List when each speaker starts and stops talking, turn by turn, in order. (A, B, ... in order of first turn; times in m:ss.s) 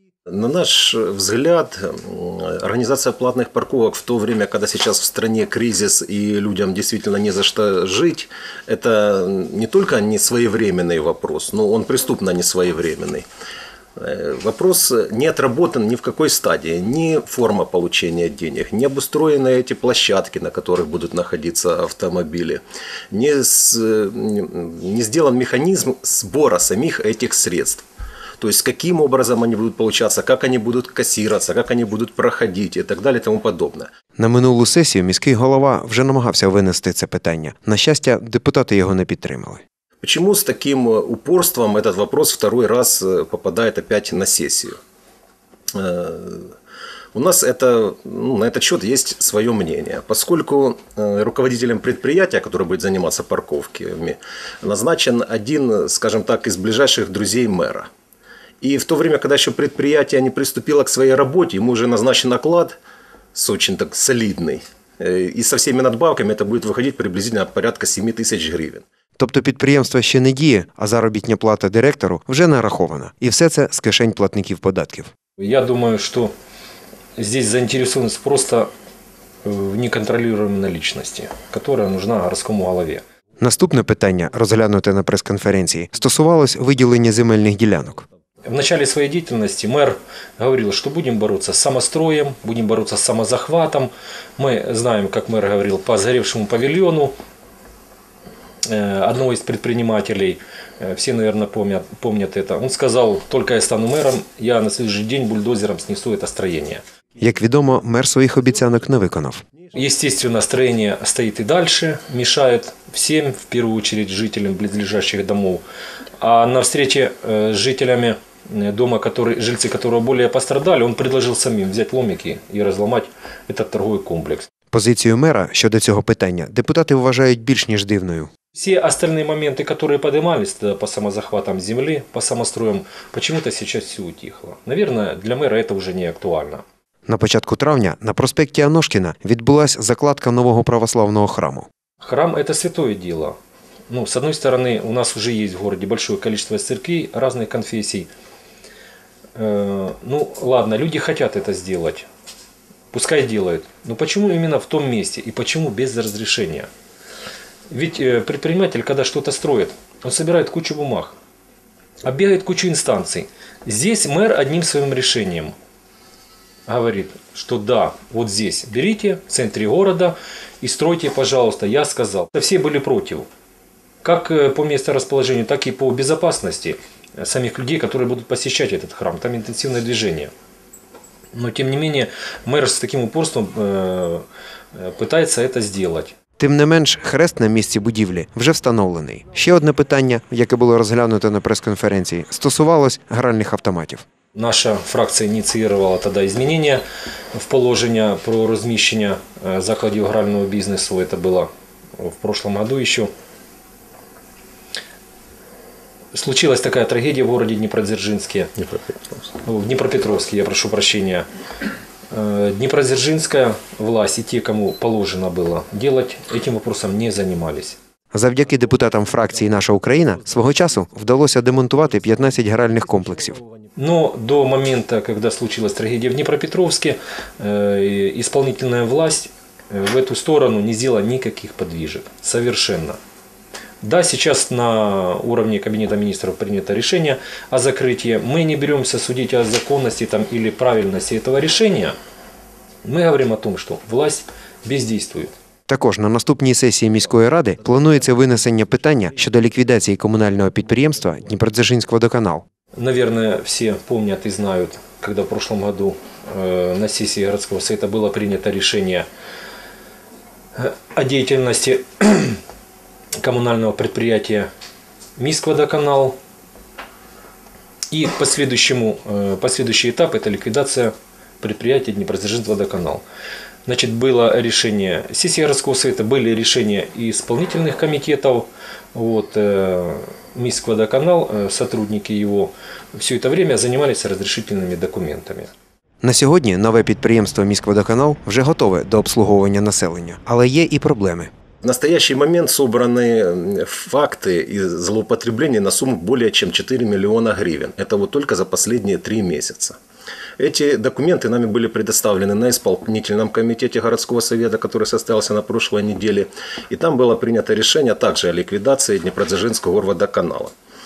0:00.3-0:13.2 A
0:14.0-0:22.6 A
0:23.1-0:27.8 A
0:28.4-0:33.9 A
0:34.2-0:39.6 B
0:40.0-0:44.8 A
0:45.7-0:46.5 A
0:47.2-0:57.9 A
0:58.6-1:02.8 A
1:03.4-1:08.8 A
1:09.2-1:15.1 B
1:15.4-1:16.3 C
1:17.2-1:18.7 C
1:19.4-1:23.0 C
1:23.4-1:28.1 B
1:28.5-1:37.1 C
1:38.6-1:46.8 C
1:47.2-1:49.4 B
1:49.7-1:55.6 C
1:56.2-2:04.5 C
2:04.7-2:08.3 B
2:08.5-2:16.6 C
2:17.1-2:21.7 B
2:22.0-2:23.4 C
2:23.9-2:28.1 C
2:29.4-2:32.1 C
2:32.9-2:36.7 C
2:37.7-2:41.2 C
2:42.0-2:45.6 C
2:46.7-2:53.3 C
2:54.0-3:00.3 C
3:01.3-3:04.2 C
3:04.8-3:06.1 C
3:06.4-3:14.0 B
3:14.4-3:16.8 C
3:17.3-3:23.1 C
3:26.1-3:28.5 C
3:28.6-3:29.2 A
3:29.4-3:31.3 C
3:32.1-3:37.8 C
3:38.1-3:43.4 B
3:38.4-3:41.0 A
3:41.5-3:43.7 A
3:43.8-3:53.0 C
3:53.8-4:02.0 C
4:02.8-4:05.3 C
4:05.7-4:12.4 B
4:12.8-4:19.1 C
4:20.6-4:22.4 C
4:23.2-4:24.5 C
4:25.2-4:26.2 C
4:27.9-4:33.0 C
4:33.7-4:45.5 C
4:46.0-4:51.3 B
4:51.6-4:59.8 A
5:00.4-5:10.5 A